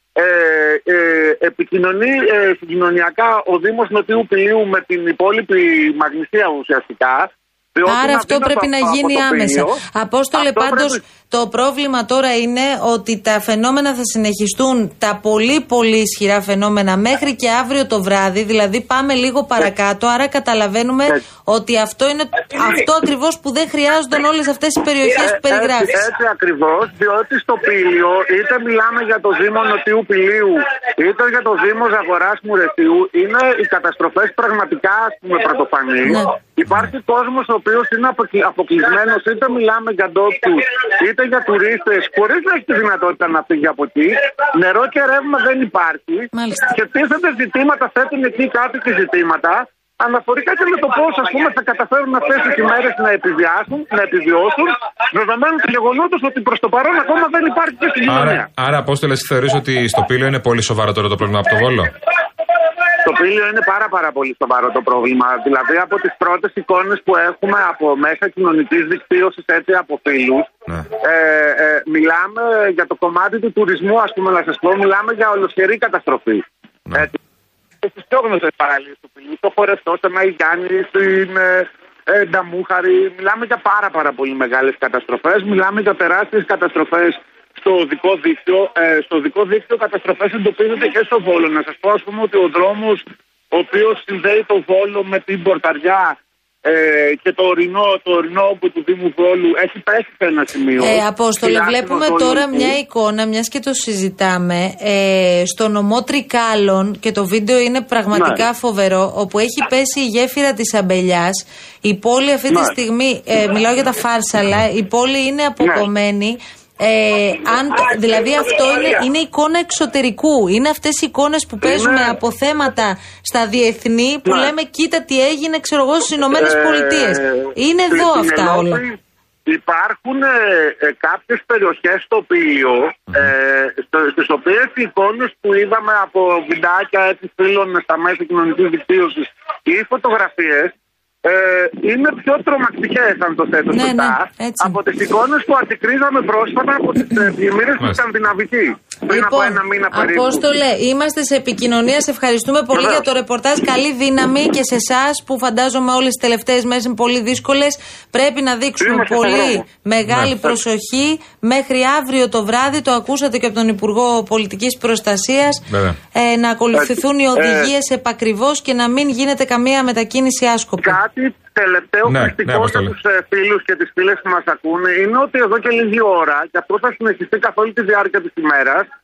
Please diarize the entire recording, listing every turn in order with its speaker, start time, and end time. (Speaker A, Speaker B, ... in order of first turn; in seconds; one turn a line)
Speaker A: 0.2-9.8
Speaker B: 7.9-26.0
Speaker A: 10.3-11.0
Speaker A: 25.2-58.5
Speaker B: 36.0-36.3
Speaker B: 46.3-46.7
Speaker C: 58.1-61.9
Speaker A: 63.0-70.5
Speaker A: 71.0-77.1
Speaker A: 77.8-102.8
Speaker B: 100.8-128.8
Speaker A: 108.1-108.4
Speaker A: 115.6-115.9
Speaker A: 121.6-122.2
Speaker A: 126.3-150.4
Speaker B: 143.7-144.8
Speaker B: 149.1-171.0
Speaker A: 152.8-153.0
Speaker A: 158.8-159.6
Speaker C: 160.1-160.4
Speaker C: 165.7-166.0
Speaker A: 166.8-167.7
Speaker A: 170.8-178.9
Speaker C: 172.1-172.9